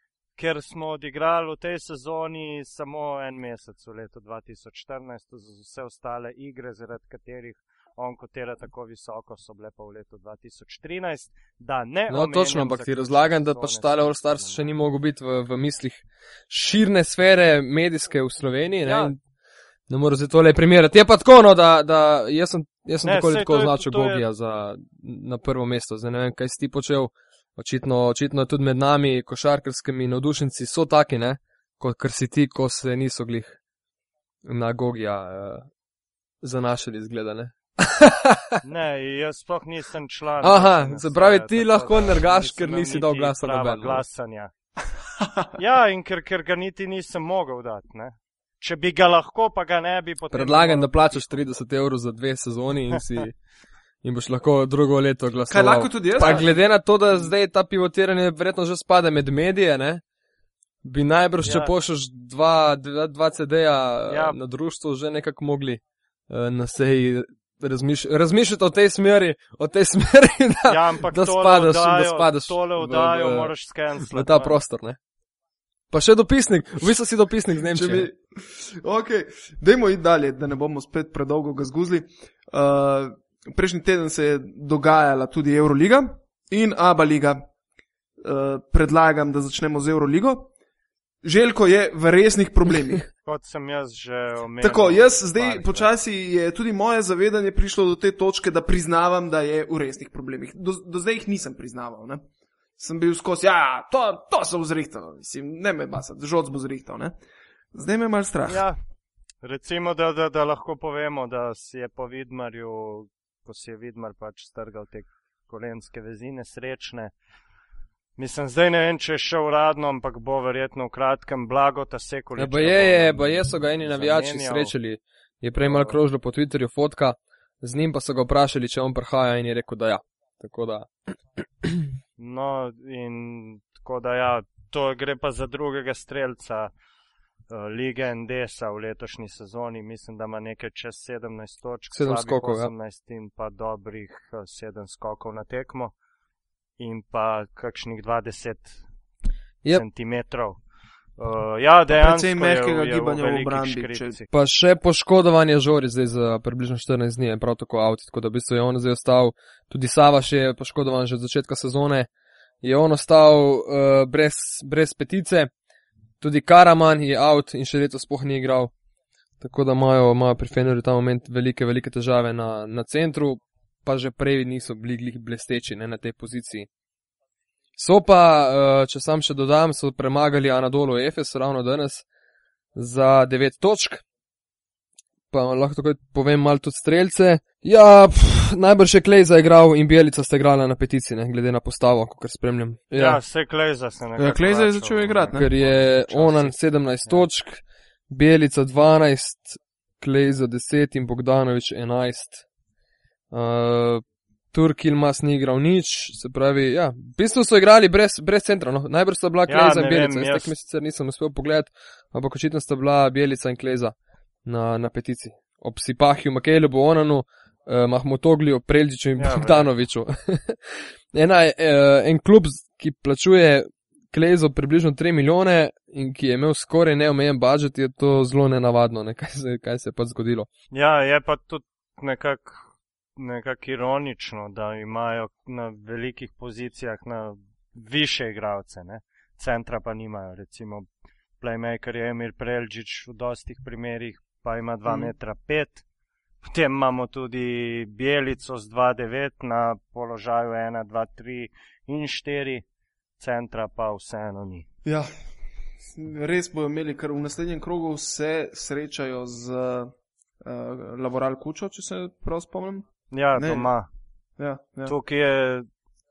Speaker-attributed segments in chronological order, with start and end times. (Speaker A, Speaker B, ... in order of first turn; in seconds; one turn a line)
Speaker A: 0.4-14.6
Speaker B: 12.1-19.2
Speaker A: 18.8-19.1
Speaker B: 19.9-33.6
Speaker A: 23.0-24.2
Speaker B: 34.4-35.7
Speaker B: 36.4-38.6
Speaker A: 38.6-44.5
Speaker B: 40.4-44.0
Speaker C: 45.2-45.5
Speaker A: 45.6-51.4
Speaker B: 50.3-53.4
Speaker B: 54.0-60.0
Speaker C: 55.5-56.5
Speaker B: 60.8-75.0
Speaker A: 61.4-61.7
Speaker A: 64.1-64.4
Speaker A: 70.7-74.6
Speaker B: 75.9-78.1
Speaker C: 77.7-87.5
Speaker C: 88.2-90.5
Speaker C: 91.2-93.0
Speaker A: 93.2-95.9
Speaker C: 94.6-102.2
Speaker C: 102.8-107.2
Speaker C: 107.7-108.6
Speaker A: 108.5-108.8
Speaker A: 109.4-117.1
Speaker A: 118.2-124.7
Speaker B: 122.4-131.9
Speaker A: 125.6-126.0
Speaker A: 132.2-136.7
Speaker A: 137.5-145.9
Speaker B: 141.9-142.7
Speaker A: 146.8-148.8
Speaker A: 149.7-150.6
Speaker A: 151.2-154.3
Speaker C: 151.9-154.2
Speaker B: 154.3-162.1
Speaker B: 162.6-165.5
Speaker B: 166.2-168.7
Speaker B: 169.4-176.7
Speaker B: 177.8-182.1
Speaker B: 182.8-184.0
Speaker B: 185.3-193.2
Speaker A: 192.9-196.5
Speaker C: 194.2-195.5
Speaker B: 195.3-202.4
Speaker B: 203.3-213.9
Speaker A: 209.5-210.5
Speaker B: 214.4-230.5
Speaker A: 219.2-219.7
Speaker A: 230.7-240.9
Speaker A: 241.4-245.8
Speaker C: 244.9-245.1
Speaker A: 246.4-252.6
Speaker A: 253.2-254.7
Speaker C: 254.8-255.1
Speaker C: 255.8-263.7
Speaker A: 263.1-263.9
Speaker C: 264.4-264.9
Speaker A: 264.9-265.7